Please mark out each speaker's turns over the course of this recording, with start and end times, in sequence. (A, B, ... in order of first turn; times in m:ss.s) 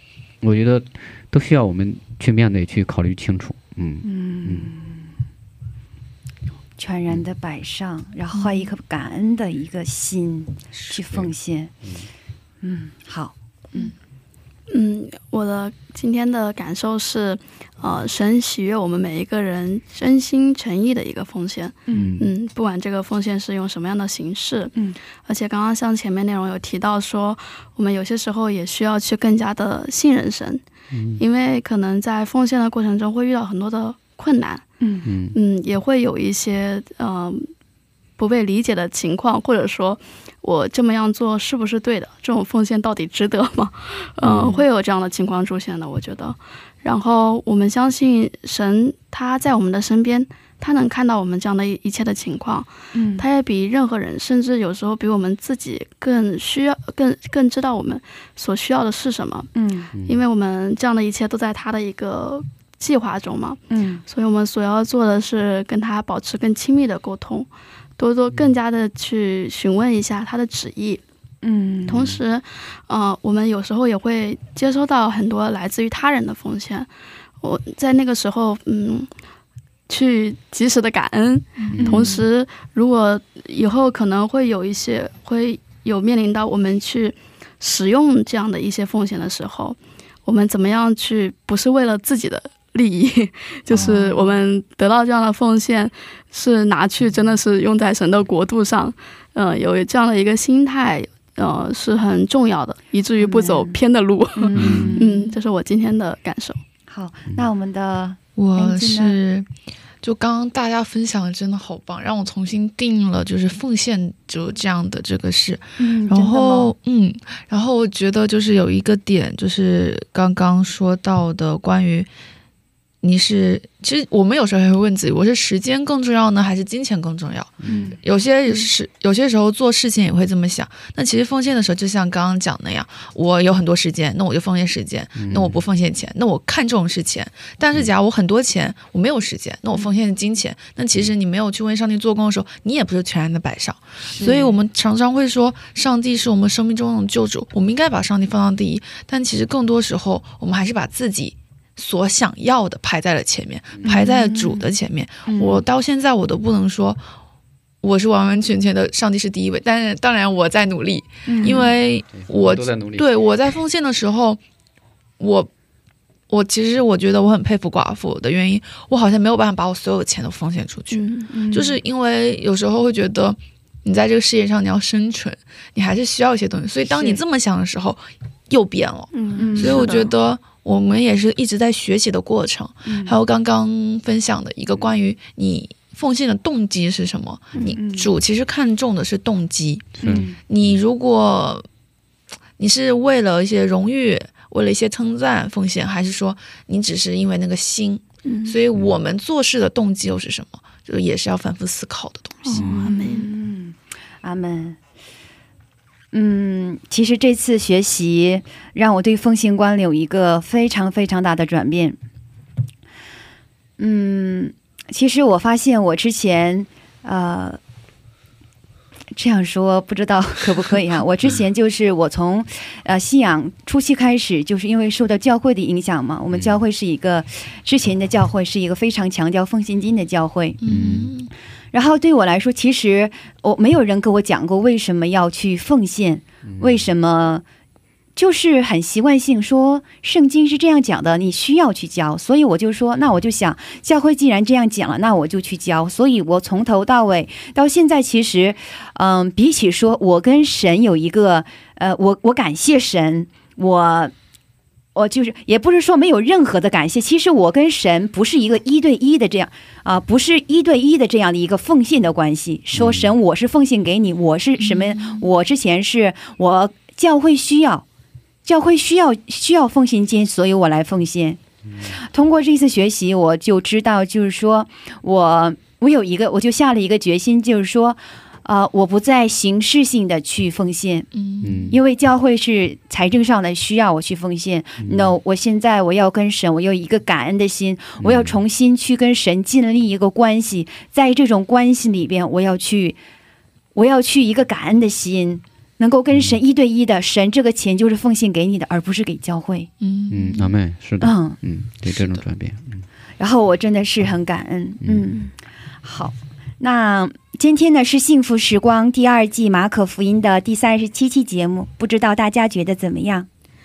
0:00.4-0:04.7 A
0:04.0-0:05.1 B
0:06.8-0:11.7 B
0:11.8-0:12.1 A
0:12.6-0:13.9 B
0:14.7-0:24.7 C
0:21.9-0:22.1 B
0:21.9-0:22.3 A
0:25.2-0:30.6 C
0:30.9-0:31.2 A
0:31.2-0:34.6 C
0:34.8-0:35.1 B
0:35.0-0:35.4 A
0:35.3-0:37.5 C
0:38.2-0:59.5 C
0:44.2-0:44.6 A
0:52.9-0:53.2 B
0:59.5-0:59.9 B
0:59.9-1:00.2 A
1:00.0-1:11.0 C
1:03.7-1:04.0 B
1:08.3-1:08.6 A
1:11.4-1:12.0 B
1:11.8-1:12.2 A
1:11.9-1:16.9 C
1:17.4-1:19.1 C
1:19.9-1:46.6 C
1:21.7-1:22.1 A
1:21.8-1:22.2 B
1:33.7-1:34.4 B
1:43.2-1:43.8 B
1:44.3-1:45.3 B
1:44.5-1:45.0 A
1:46.9-1:49.2 B
1:48.4-1:49.5 D
1:50.0-2:02.1 D
1:55.8-1:56.7 B
2:03.0-2:37.1 D
2:07.6-2:08.0 A
2:07.6-2:08.0 B
2:15.2-2:15.6 A
2:24.0-2:24.5 B
2:33.8-2:34.6 B
2:35.2-2:35.6 B
2:37.8-2:44.4 D
2:41.2-2:41.7 B
2:42.1-2:43.1 A
2:45.2-2:45.5 D
2:46.3-3:11.6 D
2:50.9-2:51.3 C
2:51.3-2:51.8 B
2:56.9-2:57.2 C
2:59.3-3:00.0 B
2:59.6-3:00.1 C
3:02.8-3:03.2 B
3:07.7-3:08.1 B
3:10.0-3:10.8 A
3:10.0-3:10.4 B
3:12.6-3:22.7 D
3:18.2-3:18.6 C
3:22.4-3:23.3 C
3:22.5-3:22.8 A
3:22.8-3:24.8 B
3:26.1-3:32.0 B
3:33.8-3:37.6 B
3:39.1-3:50.6 B
3:46.3-3:46.6 A
3:50.6-3:51.3 D
3:50.6-3:51.1 A
3:51.7-3:57.4 B
3:56.4-3:56.9 A
3:58.2-4:14.1 B
4:14.9-4:27.8 B
4:22.7-4:23.1 A
4:24.6-4:25.2 D
4:28.4-4:41.1 B
4:41.1-4:41.7 D
4:41.4-4:41.8 A
4:41.7-4:53.0 B
4:44.8-4:45.1 A
4:48.0-4:48.4 A
4:53.7-4:59.7 B
4:56.1-4:56.4 A
4:59.8-5:00.5 D
5:00.1-5:02.8 A
5:01.0-5:01.4 B
5:01.8-5:02.2 D
5:03.2-5:13.3 B
5:04.8-5:05.1 A